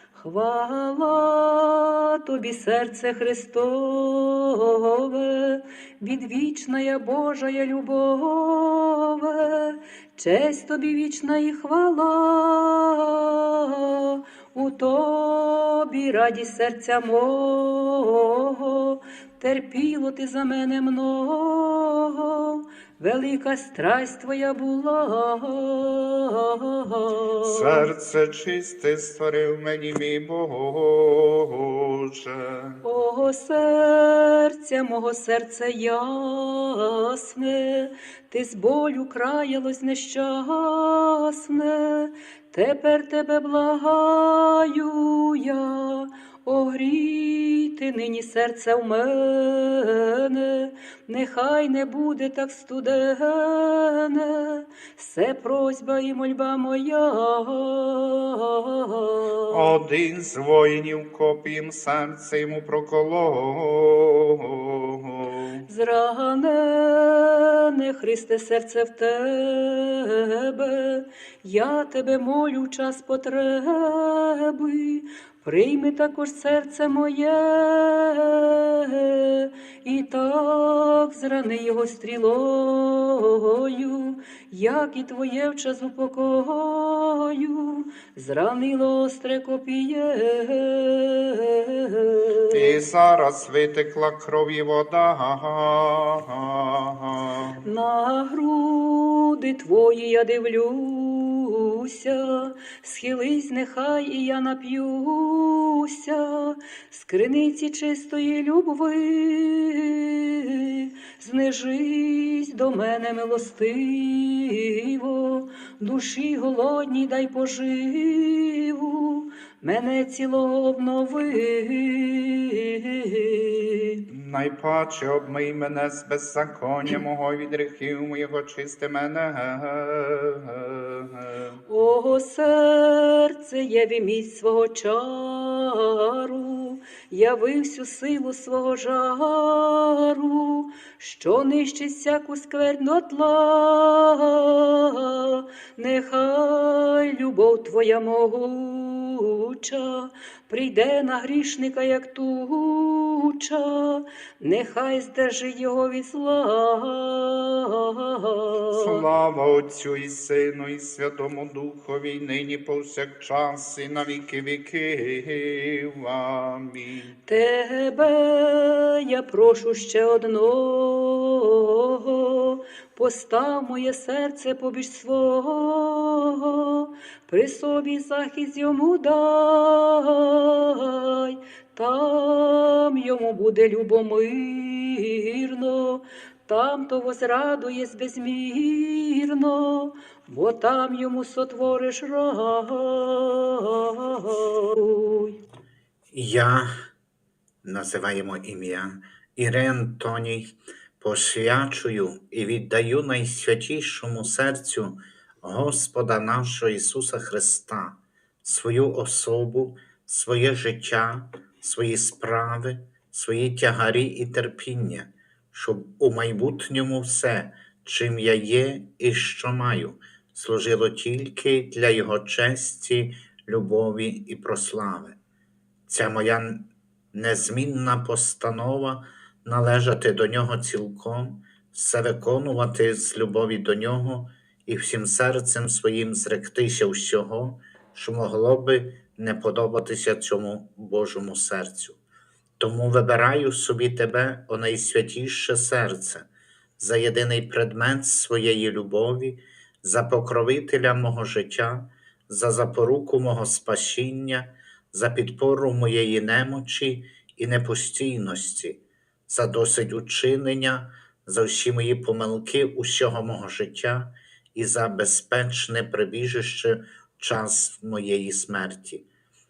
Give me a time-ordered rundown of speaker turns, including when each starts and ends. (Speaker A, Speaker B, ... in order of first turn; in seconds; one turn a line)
Speaker A: 0.1-27.9
Speaker B: 27.4-32.8
Speaker A: 32.8-59.6
Speaker B: 59.5-65.6
Speaker A: 65.7-92.7
Speaker B: 92.5-97.6
Speaker A: 97.6-124.0
Speaker B: 124.1-131.6
Speaker A: 131.7-159.0
Speaker B: 158.7-167.2
Speaker A: 167.3-195.4
Speaker C: 196.1-196.7
Speaker C: 197.6-225.2
Speaker C: 225.9-242.0
Speaker C: 242.6-246.3
Speaker C: 246.8-269.0